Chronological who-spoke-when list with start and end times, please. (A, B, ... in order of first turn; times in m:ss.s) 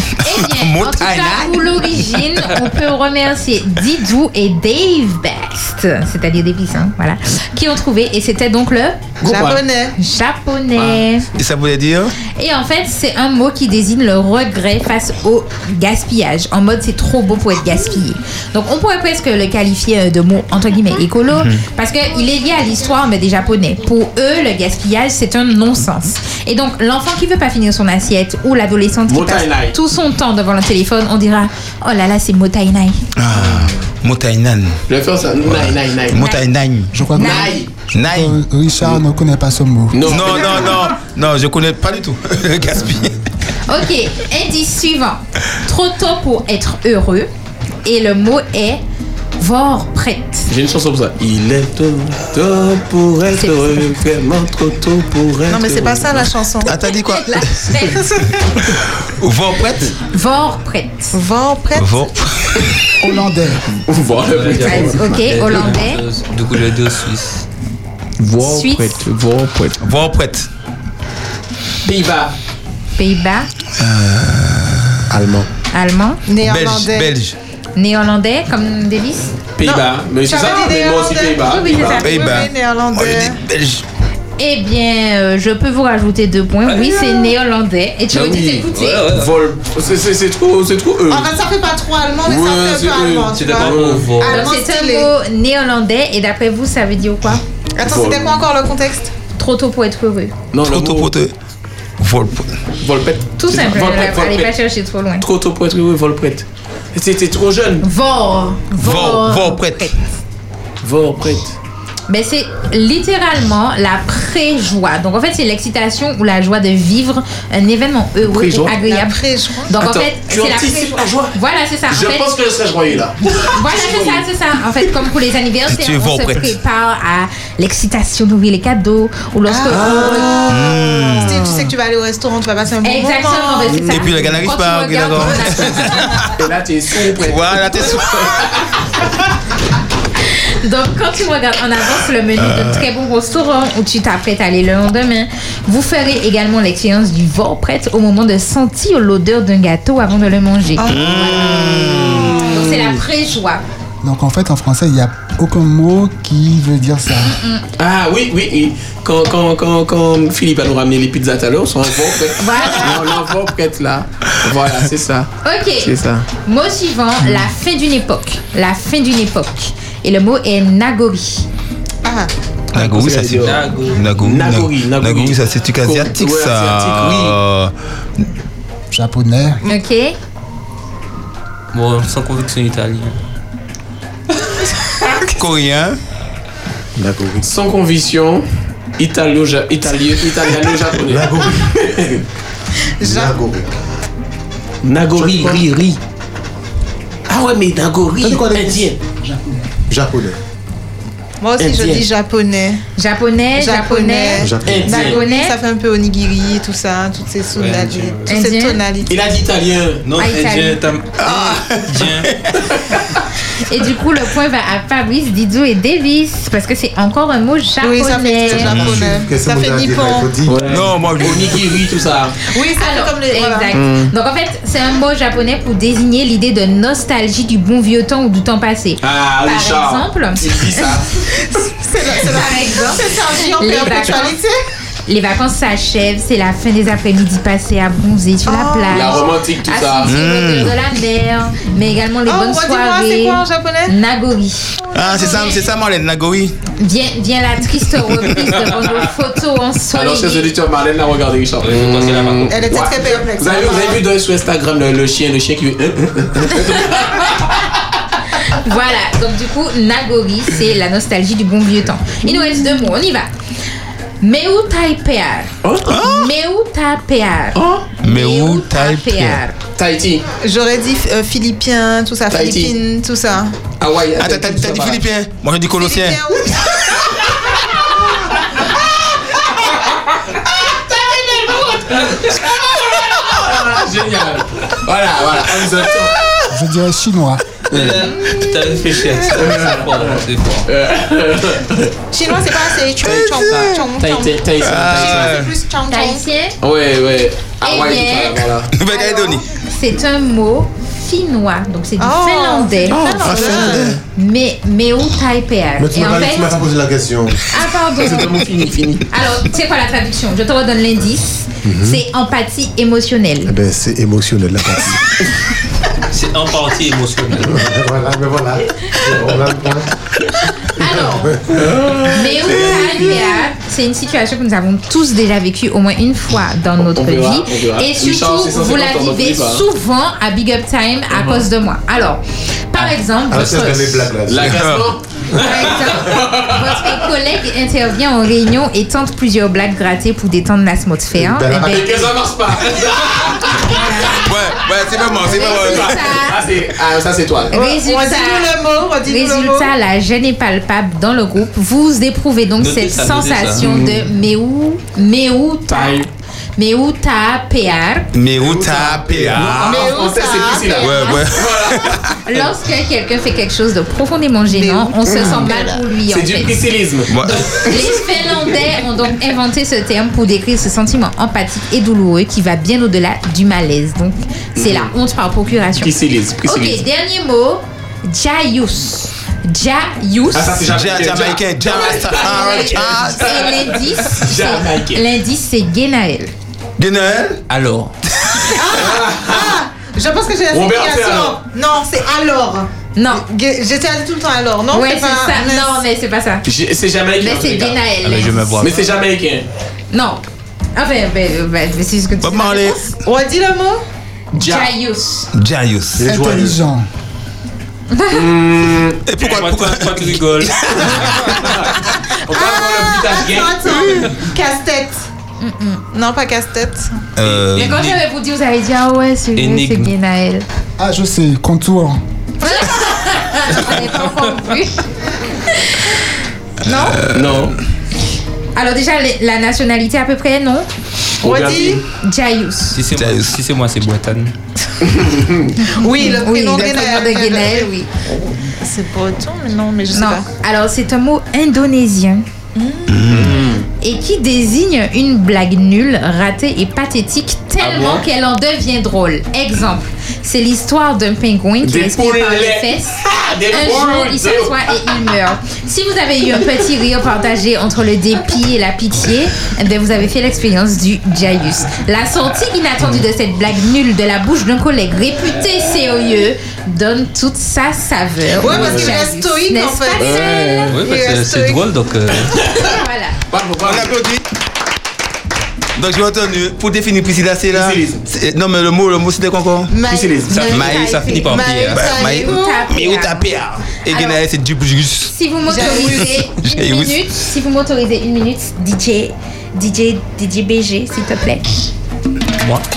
0:00.2-0:09.0 A
0:00.3-0:01.8 B
0:09.2-0:09.6 C
0:09.2-0:10.0 D
0:10.0-0:11.3 A
0:10.8-0:11.0 C
0:11.4-0:12.1 B
0:12.4-0:33.0 A
0:21.3-0:21.6 B
0:29.1-0:29.8 C
0:33.2-0:34.8 B
0:33.3-0:33.8 C
0:34.9-0:36.2 C
0:35.4-0:36.9 B
0:36.1-0:36.5 A
0:36.9-0:40.1 E
0:37.1-0:37.6 A
0:37.2-0:37.7 C
0:37.9-0:38.4 B
0:39.9-0:40.9 C
0:40.0-0:43.2 B
0:43.7-0:47.3 A
0:47.8-0:48.8 A
0:49.4-0:50.5 A
0:50.5-0:56.3 C
0:53.4-0:53.8 A
0:55.5-0:56.8 D
0:56.6-0:57.5 B
0:56.9-0:58.0 A
0:57.7-0:58.7 D
0:59.2-0:59.9 B
1:00.1-1:01.2 A
1:01.1-1:02.1 D
1:01.8-1:02.7 B
1:03.0-1:03.6 E
1:03.9-1:05.2 C
1:04.3-1:07.4 F
1:04.6-1:06.0 A
1:08.2-1:09.8 C
1:08.4-1:09.0 A
1:09.8-1:10.5 B
1:11.8-1:12.4 C
1:13.0-1:13.5 A
1:13.8-1:14.8 B
1:15.1-1:15.5 G
1:15.7-1:16.2 A
1:16.3-1:17.2 D
1:16.4-1:17.4 B
1:17.8-1:19.4 A
1:19.6-1:22.1 C
1:19.6-1:23.4 D
1:21.4-1:22.3 A
1:22.0-1:23.8 B
1:24.4-1:29.1 A
1:26.7-1:27.3 F
1:28.1-1:31.3 C
1:28.7-1:29.4 F
1:31.1-1:35.1 D
1:32.3-1:34.1 C
1:33.3-1:34.5 F
1:34.2-1:37.4 A
1:37.8-1:39.1 D
1:37.8-1:38.4 C
1:39.4-1:40.3 A
1:40.5-1:41.1 C
1:40.6-1:41.3 B
1:42.0-1:42.5 B
1:42.8-1:44.5 C
1:43.4-1:45.3 A
1:45.2-1:47.9 C
1:47.8-1:50.0 A
1:48.8-1:49.9 B
1:50.8-1:51.6 C
1:52.1-2:02.4 A
1:58.2-1:58.8 C
1:58.8-1:59.7 D
1:59.8-2:01.4 C
2:01.9-2:04.2 C
2:03.5-2:10.4 A
2:05.7-2:06.5 B
2:09.5-2:13.9 D
2:09.7-2:10.5 C
2:10.5-2:11.4 B
2:12.8-2:16.0 A
2:13.7-2:14.1 C
2:13.9-2:16.3 B
2:16.4-2:18.8 C
2:17.2-2:18.4 B
2:20.4-2:31.8 A
2:22.4-2:22.8 B
2:30.8-2:32.4 B
2:31.1-2:31.6 D
2:32.5-2:33.6 A
2:34.0-2:37.4 E
2:37.2-2:37.6 A
2:37.8-2:46.3 C
2:42.4-2:43.0 A
2:45.4-2:51.5 A
2:52.0-2:52.3 D
2:52.7-2:57.7 B
2:52.7-2:53.6 C
2:53.4-2:54.0 F
2:54.2-2:57.4 C
2:58.9-2:59.6 E
2:59.7-3:00.2 A
3:01.7-3:03.2 F
3:05.3-3:06.0 B
3:07.0-3:07.5 G
3:07.4-3:08.4 C
3:09.0-3:12.2 C
3:11.0-3:11.7 G
3:13.0-3:13.4 D
3:13.0-3:13.7 G
3:14.8-3:16.0 C
3:15.1-3:15.6 G
3:17.3-3:19.0 C
3:18.2-3:18.9 G
3:19.2-3:19.7 E
3:19.9-3:20.4 G
3:21.4-3:22.8 D
3:21.6-3:22.1 C
3:23.0-3:25.6 A
3:23.6-3:29.1 D
3:24.4-3:25.0 G
3:24.7-3:25.2 C
3:27.6-3:28.3 F
3:28.3-3:28.8 A
3:29.1-3:30.0 C
3:30.0-3:32.3 F
3:30.2-3:30.8 A
3:31.2-3:32.5 B
3:33.6-3:38.8 A
3:37.8-3:40.3 D
3:38.5-3:39.1 B
3:38.7-3:40.6 G
3:40.5-3:42.4 C
3:40.7-3:41.6 B
3:42.4-3:43.8 D
3:42.8-3:50.9 A
3:43.7-3:44.1 C
3:49.0-3:51.2 C
3:51.4-3:54.6 D
3:52.3-3:54.4 A
3:55.1-4:05.5 A
3:58.5-3:59.3 D
3:58.9-4:00.2 C
4:00.1-4:00.8 B
4:02.2-4:04.0 D
4:04.9-4:05.6 D
4:04.9-4:06.5 B
4:06.8-4:10.5 A
4:09.9-4:17.7 C
4:11.6-4:12.6 F
4:12.5-4:14.0 D
4:16.5-4:17.7 A
4:18.4-4:23.3 A
4:24.2-4:29.6 A
4:25.6-4:26.0 C
4:25.8-4:26.3 B
4:27.6-4:27.9 C
4:28.0-4:29.4 B
4:29.8-4:30.2 C
4:30.4-4:33.6 D
4:32.3-4:32.8 C
4:33.8-4:35.0 C
4:34.2-4:36.2 B
4:35.7-4:36.7 D
4:39.7-4:40.0 C
4:40.9-4:46.2 C
4:46.5-4:47.4 E
4:47.7-4:48.3 C
4:47.7-4:50.7 F
4:49.2-4:51.9 C
4:52.1-4:56.2 D
4:53.0-4:55.4 C
4:54.6-4:55.5 B
4:55.9-4:56.6 A
4:56.6-4:58.7 C
4:57.6-5:06.5 A
4:58.7-4:59.5 B
5:02.0-5:03.9 D
5:02.9-5:04.0 C
5:03.2-5:04.0 B
5:05.8-5:07.4 G
5:07.5-5:08.4 A
5:08.0-5:09.0 C
5:09.1-5:13.5 A
5:11.6-5:12.0 G
5:13.5-5:15.0 G
5:16.1-5:17.7 F
5:17.5-5:19.9 G
5:19.1-5:19.4 C
5:20.8-5:21.6 A
5:21.1-5:21.7 G
5:21.5-5:23.5 C
5:22.1-5:34.0 A
5:26.8-5:29.6 C
5:31.1-5:31.5 C
5:33.3-5:34.6 G
5:34.3-5:37.0 C
5:34.4-5:34.9 B
5:35.3-5:41.9 A
5:41.1-5:42.1 G
5:41.6-5:44.2 C
5:43.6-5:44.3 A
5:44.2-5:46.0 B
5:45.0-5:47.5 C
5:45.2-5:46.4 A
5:47.5-5:49.7 D
5:47.5-5:48.5 A
5:49.0-5:56.0 A
5:52.6-5:53.9 F
5:55.7-5:56.1 C
5:56.6-5:58.1 A
5:58.1-5:59.9 B
5:58.4-5:59.6 G
5:59.3-6:02.4 C
5:59.6-6:01.1 D
6:00.8-6:02.0 B
6:01.0-6:01.3 A
6:02.2-6:06.6 A
6:04.5-6:05.8 D
6:06.1-6:07.2 C
6:07.1-6:07.7 B
6:07.2-6:15.9 A
6:14.6-6:14.9 C
6:15.8-6:16.8 C
6:16.5-6:20.7 A
6:20.3-6:25.0 C
6:20.7-6:23.4 B
6:22.1-6:26.3 A
6:26.8-6:27.4 B
6:27.5-6:27.9 F
6:28.2-6:28.5 B
6:28.6-6:35.8 D
6:28.7-6:29.6 C
6:30.5-6:31.4 C
6:33.0-6:33.2 A
6:34.7-6:36.4 A
6:36.5-6:37.8 C
6:37.2-6:38.7 A
6:38.0-6:38.9 F
6:38.6-6:39.5 C
6:39.9-6:40.2 A
6:40.8-6:42.9 A
6:42.2-6:42.8 B
6:43.0-6:43.8 D
6:44.3-6:45.3 A
6:44.4-6:44.7 C
6:45.3-6:46.1 B
6:46.0-6:46.6 G
6:46.0-6:46.9 E
6:47.9-6:48.2 A
6:48.1-6:49.0 C
6:49.1-6:51.0 B
6:49.2-6:51.4 F
6:51.3-6:54.0 C
6:52.3-6:55.0 D
6:55.4-6:55.8 A
6:55.9-6:57.0 D
6:57.2-6:57.8 B
6:57.5-6:58.0 F
6:57.6-7:00.4 A
6:59.4-6:59.9 F
7:00.8-7:02.0 E
7:02.4-7:04.9 A
7:03.9-7:04.2 F
7:05.5-7:06.0 A
7:06.6-7:07.0 A
7:06.7-7:07.5 B
7:07.1-7:07.6 C
7:08.6-7:10.7 A
7:11.2-7:11.8 C
7:11.2-7:11.8 D
7:12.0-7:12.8 A
7:12.7-7:14.3 F
7:12.9-7:13.4 B
7:14.8-7:15.6 C
7:15.7-7:17.7 D
7:16.0-7:17.9 A
7:18.6-7:20.3 D
7:19.9-7:22.3 A
7:22.6-7:23.0 D
7:22.9-7:23.4 B
7:23.1-7:23.7 C
7:23.8-7:50.7 A
7:27.6-7:28.0 F
7:31.6-7:34.8 C
7:48.4-7:51.7 D
7:48.4-7:49.0 C
7:50.0-7:50.8 C
7:50.7-7:52.4 F
7:52.3-7:52.7 C
7:52.6-7:53.2 A
7:53.3-7:54.0 C
7:53.6-7:54.2 B
7:55.8-7:59.7 B
7:57.5-7:58.0 C
7:59.7-8:02.6 D
7:59.8-8:00.6 C
8:00.3-8:03.3 A
8:00.4-8:01.8 F
8:00.5-8:07.0 B
8:03.9-8:04.2 A
8:05.1-8:11.7 A
8:05.5-8:06.2 D